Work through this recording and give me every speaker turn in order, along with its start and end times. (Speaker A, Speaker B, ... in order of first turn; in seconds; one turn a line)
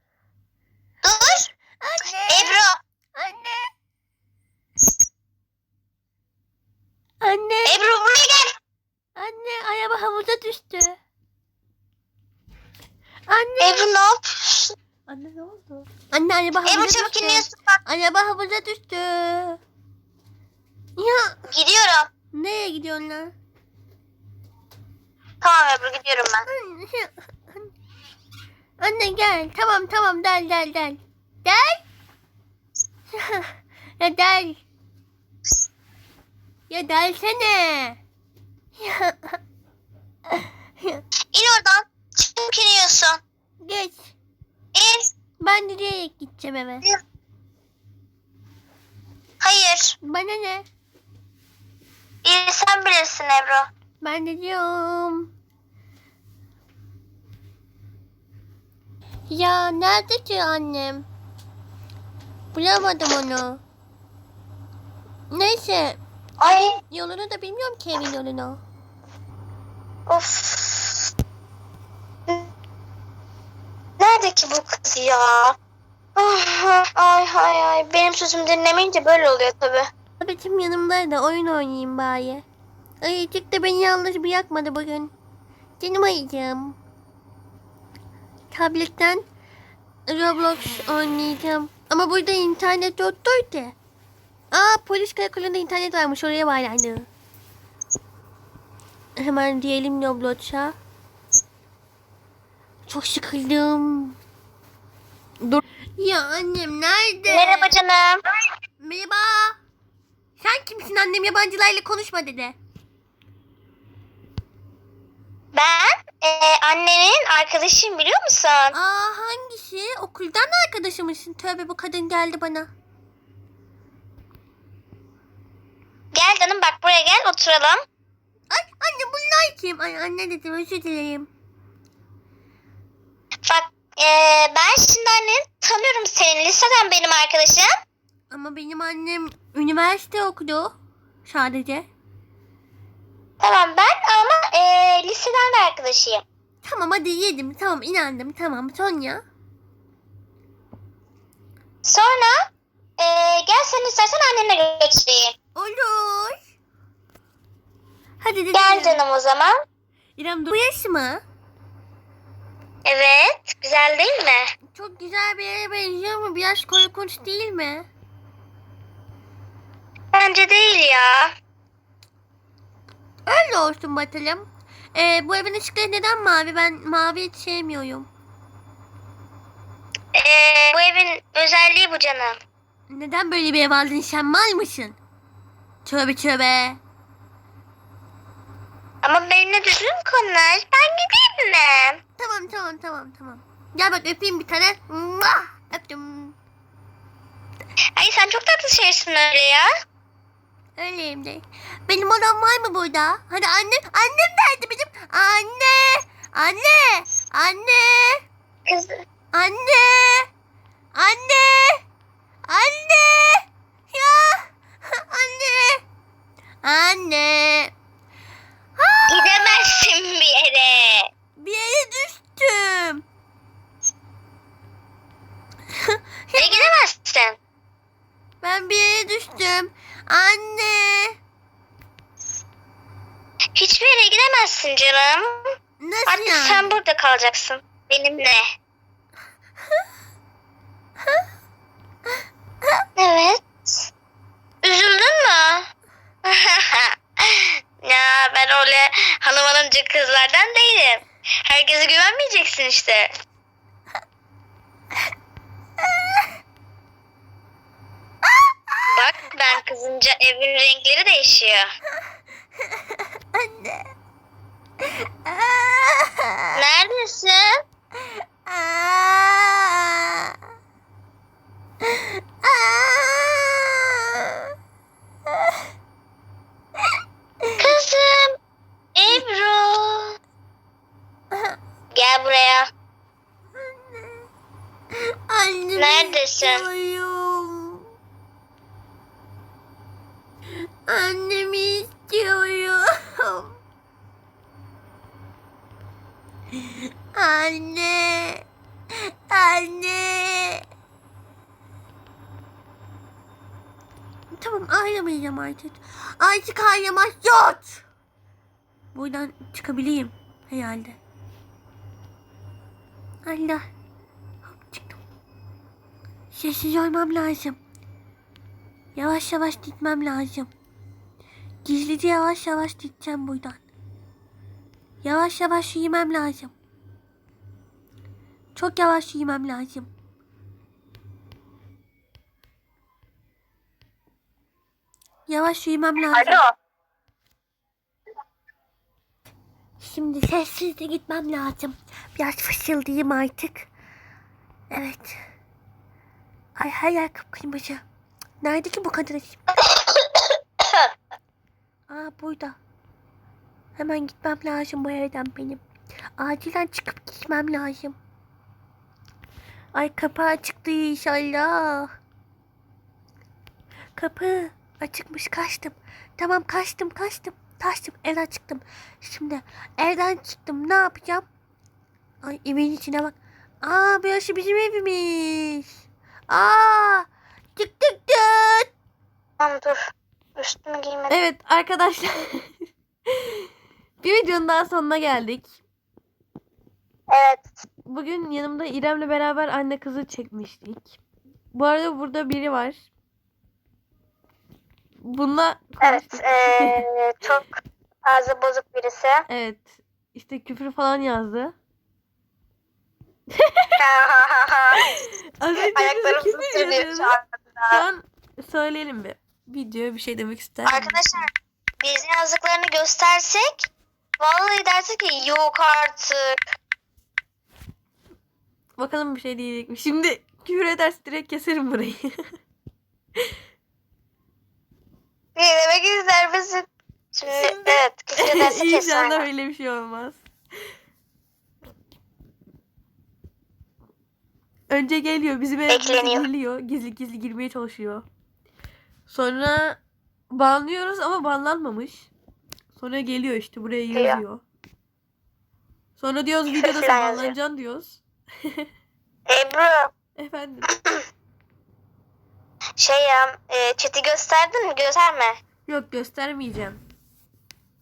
Speaker A: 1.0-1.5
Speaker B: 1.8-2.6
Speaker A: 2.3-2.8
Speaker B: 3.1-3.7
Speaker B: 7.2-7.8
Speaker A: 7.7-8.5
Speaker B: 9.2-11.0
Speaker B: 13.3-13.9
Speaker A: 13.6-14.8
Speaker B: 15.1-19.6
Speaker A: 16.7-17.8
Speaker B: 21.0-21.4
Speaker A: 21.5-22.1
Speaker B: 22.3-23.3
Speaker A: 25.4-26.4
Speaker B: 26.5-27.7
Speaker B: 28.8-31.8
Speaker B: 33.1-34.6
Speaker B: 36.7-38.0
Speaker B: 38.8-39.4
Speaker B: 40.3-41.0
Speaker A: 41.3-43.2
Speaker B: 43.6-44.1
Speaker A: 44.8-45.1
Speaker B: 45.4-46.9
Speaker A: 49.4-50.0
Speaker B: 50.0-50.7
Speaker A: 52.2-53.7
Speaker B: 54.0-55.3
Speaker B: 59.3-61.1
Speaker B: 62.5-63.6
Speaker B: 65.3-68.6
Speaker A: 66.4-66.7
Speaker A: 70.1-71.1
Speaker A: 74.0-75.6
Speaker A: 76.2-79.9
Speaker B: 80.2-82.5
Speaker B: 83.0-85.1
Speaker B: 85.8-86.8
Speaker B: 88.5-89.2
Speaker B: 90.1-93.8
Speaker B: 94.5-97.1
Speaker B: 99.2-100.8
Speaker B: 102.9-104.2
Speaker B: 106.0-107.7
Speaker A: 107.3-108.2
Speaker B: 108.8-109.6
Speaker B: 110.4-112.6
Speaker A: 115.5-118.7
Speaker B: 118.7-122.7
Speaker A: 126.1-127.8
Speaker B: 128.5-131.3
Speaker A: 133.5-137.7
Speaker B: 138.3-141.9
Speaker A: 143.4-146.2
Speaker B: 146.6-149.2
Speaker A: 151.8-152.3
Speaker A: 153.0-155.3
Speaker B: 155.6-156.4
Speaker B: 158.2-159.0
Speaker A: 158.5-159.5
Speaker B: 160.2-161.2
Speaker A: 162.9-164.5
Speaker B: 164.7-167.9
Speaker A: 170.1-171.3
Speaker B: 173.3-178.1
Speaker A: 180.2-182.4
Speaker B: 182.9-185.0
Speaker B: 185.8-186.8
Speaker A: 189.0-192.0
Speaker B: 192.2-196.4
Speaker A: 198.0-199.7
Speaker B: 200.8-208.2
Speaker A: 208.7-209.0
Speaker B: 209.3-210.3
Speaker B: 210.9-211.8
Speaker B: 212.5-215.8
Speaker B: 216.6-217.7
Speaker B: 218.8-219.7
Speaker A: 219.1-221.1
Speaker B: 221.4-223.0
Speaker B: 225.7-226.7
Speaker A: 226.4-227.4
Speaker B: 228.4-231.2
Speaker A: 233.6-235.4
Speaker B: 235.8-236.7
Speaker A: 236.1-238.5
Speaker A: 243.0-243.9
Speaker A: 244.6-245.7
Speaker A: 246.2-253.1
Speaker B: 255.8-256.3
Speaker B: 258.2-258.9
Speaker A: 258.9-261.7
Speaker B: 262.6-263.9
Speaker B: 264.8-266.6
Speaker A: 266.6-267.5
Speaker B: 268.0-270.4
Speaker B: 271.8-274.5
Speaker B: 275.3-275.6
Speaker A: 277.6-278.3
Speaker A: 278.9-280.1
Speaker B: 281.3-281.6
Speaker A: 281.9-282.7
Speaker B: 283.6-284.3
Speaker B: 284.9-287.9
Speaker A: 285.8-286.6
Speaker B: 290.9-293.6
Speaker B: 297.1-300.6
Speaker B: 304.3-307.8
Speaker B: 308.9-311.0
Speaker B: 313.3-313.6
Speaker B: 314.4-315.0
Speaker B: 316.3-317.6
Speaker B: 318.9-320.5
Speaker B: 321.6-323.6
Speaker B: 325.0-326.5
Speaker B: 328.6-329.9
Speaker B: 335.3-336.4
Speaker A: 336.1-336.5
Speaker B: 339.8-343.7
Speaker B: 344.7-345.2
Speaker B: 346.6-347.8
Speaker B: 348.4-349.4
Speaker A: 349.7-350.9
Speaker B: 351.9-352.6
Speaker B: 353.8-355.6
Speaker B: 356.2-358.0
Speaker B: 359.7-361.9
Speaker B: 364.0-371.3
Speaker B: 372.2-375.7
Speaker B: 376.3-378.7
Speaker A: 379.4-379.8
Speaker A: 380.4-381.2
Speaker C: 381.1-382.5
Speaker C: 383.1-383.4
Speaker C: 384.0-385.5
Speaker A: 387.1-387.6
Speaker C: 387.9-391.0
Speaker C: 391.5-392.8
Speaker C: 395.1-396.9
Speaker A: 395.8-397.5
Speaker A: 398.1-399.2
Speaker C: 399.3-401.5
Speaker A: 403.8-404.9
Speaker C: 404.9-411.0
Speaker A: 405.6-407.8
Speaker A: 410.6-411.3
Speaker A: 411.8-413.7
Speaker A: 414.2-416.4
Speaker C: 418.8-422.3
Speaker A: 425.4-429.3
Speaker C: 427.3-430.2
Speaker C: 434.7-438.0
Speaker A: 435.7-436.3
Speaker C: 439.1-439.8
Speaker C: 440.3-442.1
Speaker C: 442.8-444.4
Speaker A: 443.9-444.2
Speaker C: 446.0-448.0
Speaker A: 446.5-447.4
Speaker A: 449.3-449.9
Speaker C: 450.2-450.7
Speaker A: 452.8-455.4
Speaker C: 455.7-456.8